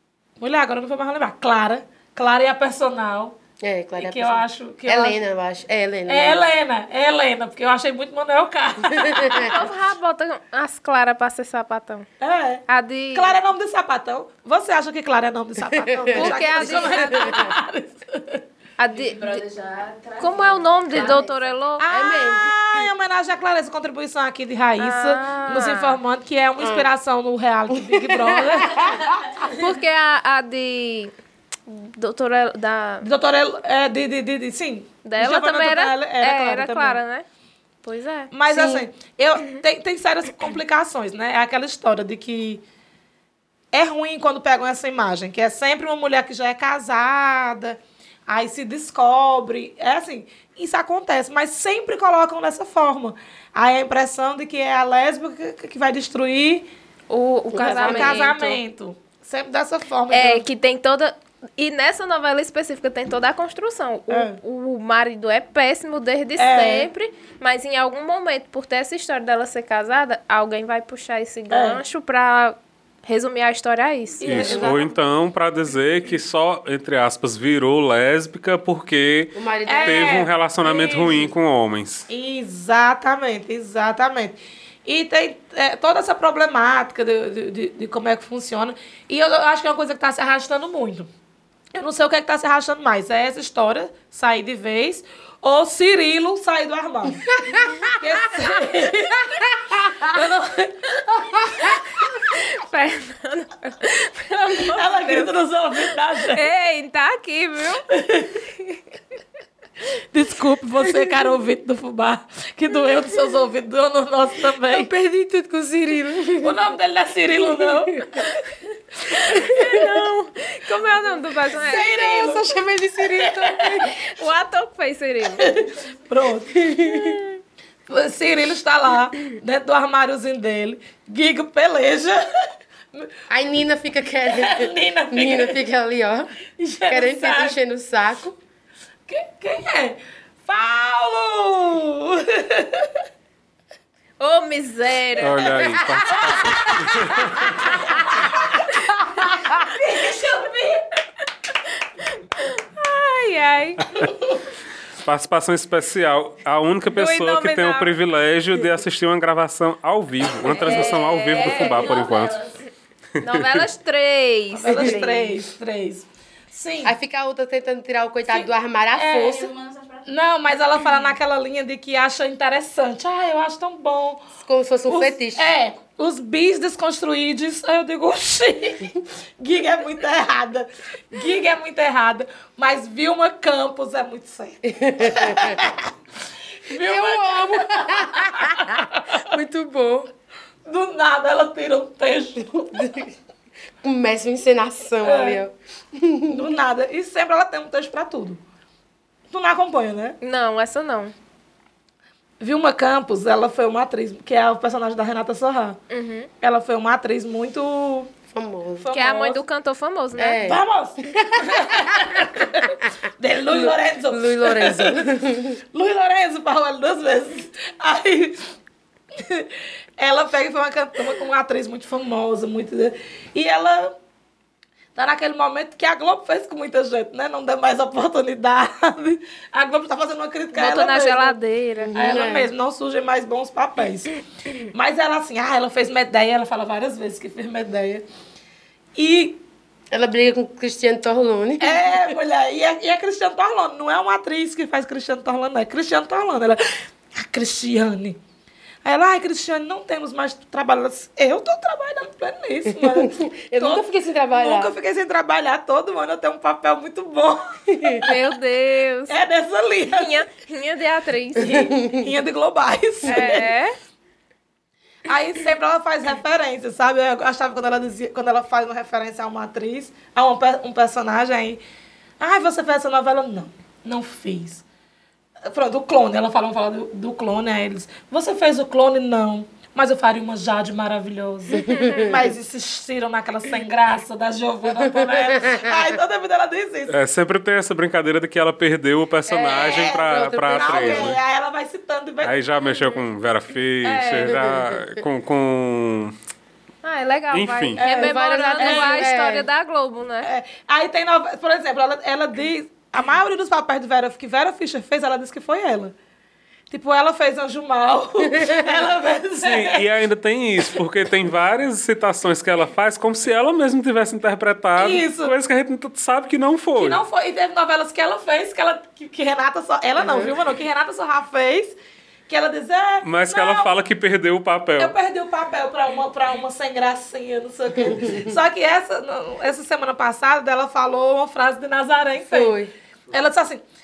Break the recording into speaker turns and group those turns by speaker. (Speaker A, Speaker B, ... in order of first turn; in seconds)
Speaker A: 0.4-3.4, 4.0-5.2, 6.1-9.5, 12.2-18.4, 21.8-29.0, 33.0-37.0, 38.3-42.6, 43.7-56.7, 57.6-60.4, 64.1-64.4, 66.4-66.9, 71.5-71.8, 74.2-75.0, 79.7-81.3, 82.1-91.1, 91.7-97.3, 97.9-101.8, 104.7-106.5, 107.9-108.4, 110.1-114.9, 116.4-118.5, 119.1-119.6, 121.5-123.9, 125.4-126.6, 127.9-132.3, 134.2-135.6, 136.6-137.6, 139.1-143.0, 146.1-146.9, 147.8-148.5, 149.2-150.8, 154.1-154.3, 164.5-166.9, 168.3-169.5, 170.0-174.3, 174.9-185.9, 186.7-189.2, 190.7-192.9, 195.0-195.4, 196.3-198.4, 199.3-200.2, 202.4-205.8, 206.4-208.1, 208.8-209.4, 210.4-215.0, 215.7-218.5, 219.1-223.9, 224.9-231.3, 231.9-234.2, 234.7-238.0, 238.9-239.4, 241.6-248.2, 248.8-258.1, 259.1-260.2, 261.4-263.5, 265.1-271.6, 272.2-274.6, 275.5-286.9, 289.4-292.4, 293.8-294.3, 297.8-299.1, 300.2-305.9, 306.7-309.9, 314.8-315.3, 316.8-321.7, 322.3-323.7, 324.8-332.6, 333.1-333.6
Speaker B: 3.6-6.4, 8.9-9.6, 15.6-17.6, 20.9-21.3, 21.9-22.5, 26.6-26.9, 27.7-29.2, 38.5-38.8, 57.5-58.3, 74.4-74.8, 79.3-80.3, 97.4-98.0, 98.9-100.2, 114.6-116.7, 117.4-118.3, 119.3-120.0, 121.6-124.0, 126.5-127.2, 133.3-136.3, 136.9-138.3, 145.6-147.8, 149.0-149.6, 164.7-165.0, 166.8-169.5, 174.4-175.5, 184.6-185.6, 186.7-190.1, 192.5-193.1, 193.8-196.5, 208.3-208.8, 210.2-212.7, 213.5-215.6, 231.8-232.5, 239.9-242.1, 252.7-254.7, 257.7-258.1, 261.4-262.1, 281.6-282.2, 284.9-285.8, 289.3-291.2, 294.2-294.8, 297.9-299.5, 308.3-308.9, 320.0-320.3, 327.8-328.3, 332.2-332.7
Speaker C: 9.4-12.1, 12.7-13.3, 16.1-17.4, 18.8-21.8, 24.8-26.0, 29.4-31.1, 31.7-33.1, 35.0-37.2, 37.8-38.3, 57.1-58.6, 60.1-74.5, 101.6-105.3, 106.3-107.8, 119.2-122.0, 123.8-125.5, 126.8-127.2, 144.2-145.6, 152.1-154.0, 156.9-157.9, 160.5-162.6, 163.2-165.3, 200.2-201.1, 205.9-206.3, 208.9-210.6, 230.5-231.9, 258.0-259.1, 259.9-261.6, 263.0-263.7, 281.6-282.1, 296.8-300.3
Speaker D: 74.2-82.1, 145.2-147.6, 155.0-162.4, 163.2-163.6, 286.9-291.2, 292.2-296.1, 297.3-297.8, 309.4-317.0, 323.0-324.9